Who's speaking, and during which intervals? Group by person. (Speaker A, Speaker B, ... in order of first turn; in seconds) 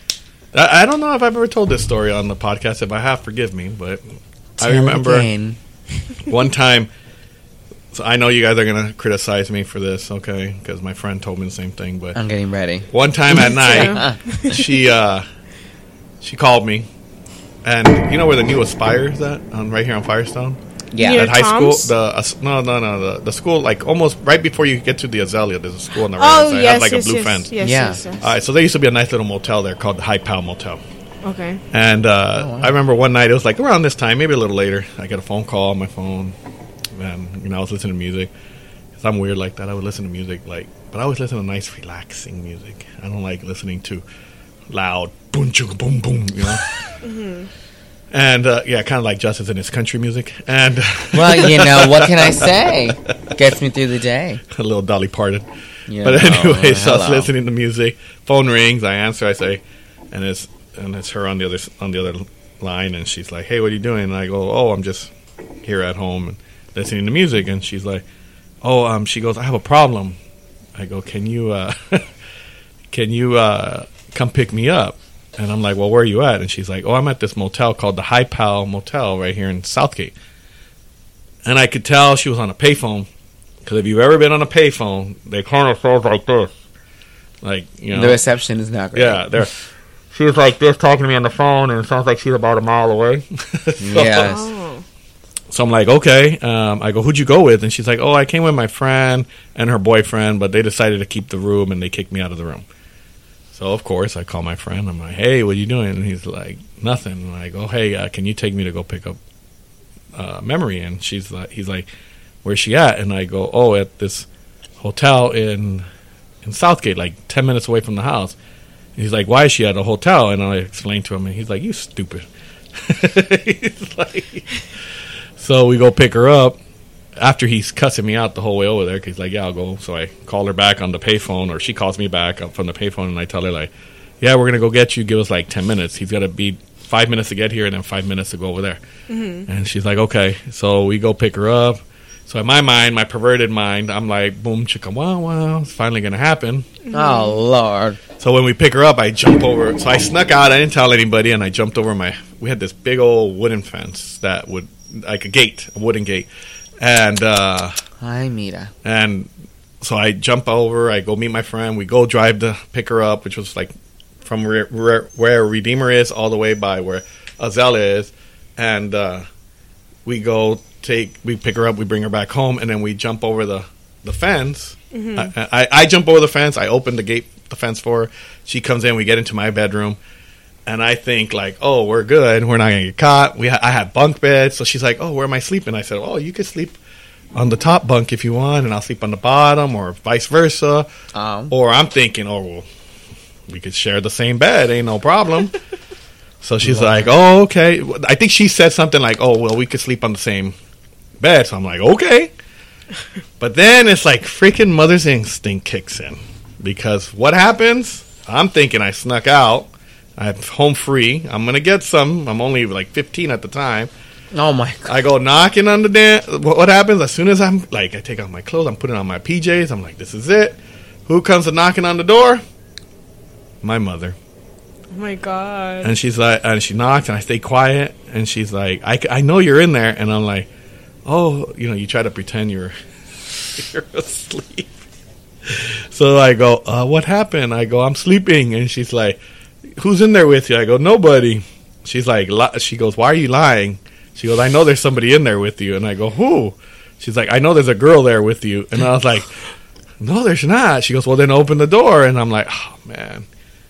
Speaker A: 0.5-4.0, 4.6-5.3, 6.3-6.9, 7.9-12.2, 12.9-15.3, 16.2-16.9, 17.6-27.5, 28.2-30.8, 31.7-36.4, 36.9-38.3, 39.0-44.0, 44.7-46.8, 48.1-52.5, 54.5-55.5, 56.0-65.1, 65.6-68.0, 68.6-70.2, 70.8-72.1, 72.9-80.1, 81.5-83.1, 83.7-86.5, 87.4-88.2, 88.9-89.6, 90.1-94.4, 95.5-102.7, 103.5-109.2, 110.2-111.9, 112.4-114.3, 114.8-115.9, 116.4-118.4, 119.0-122.2, 122.8-124.5, 125.4-126.6, 127.2-133.7, 134.2-138.8, 139.5-146.7, 148.2-156.3, 156.8-157.8, 158.8-159.3, 159.8-163.7, 164.2-169.2, 170.1-180.0, 180.7-186.8, 187.3-190.9, 191.5-192.7, 193.5-195.5, 196.4-200.6, 201.2-202.3, 203.4-213.9, 214.9-222.4, 223.6-224.2, 225.8-230.5, 231.1-232.7, 233.5-234.8, 235.5-239.2, 239.8-249.3, 250.0-253.3
Speaker B: 4.6-5.6, 12.2-14.2, 20.9-21.3, 27.6-28.0, 32.4-32.7, 51.1-54.4, 55.9-57.3, 87.9-89.2, 93.8-94.5, 146.9-148.0, 158.0-158.7, 191.1-191.5, 196.6-197.2, 214.3-215.0
Speaker C: 13.3-14.9, 21.0-21.9, 26.2-28.3, 31.2-31.6, 47.0-47.5, 94.2-94.8, 139.1-139.5, 146.8-147.4, 174.9-175.3, 224.9-226.0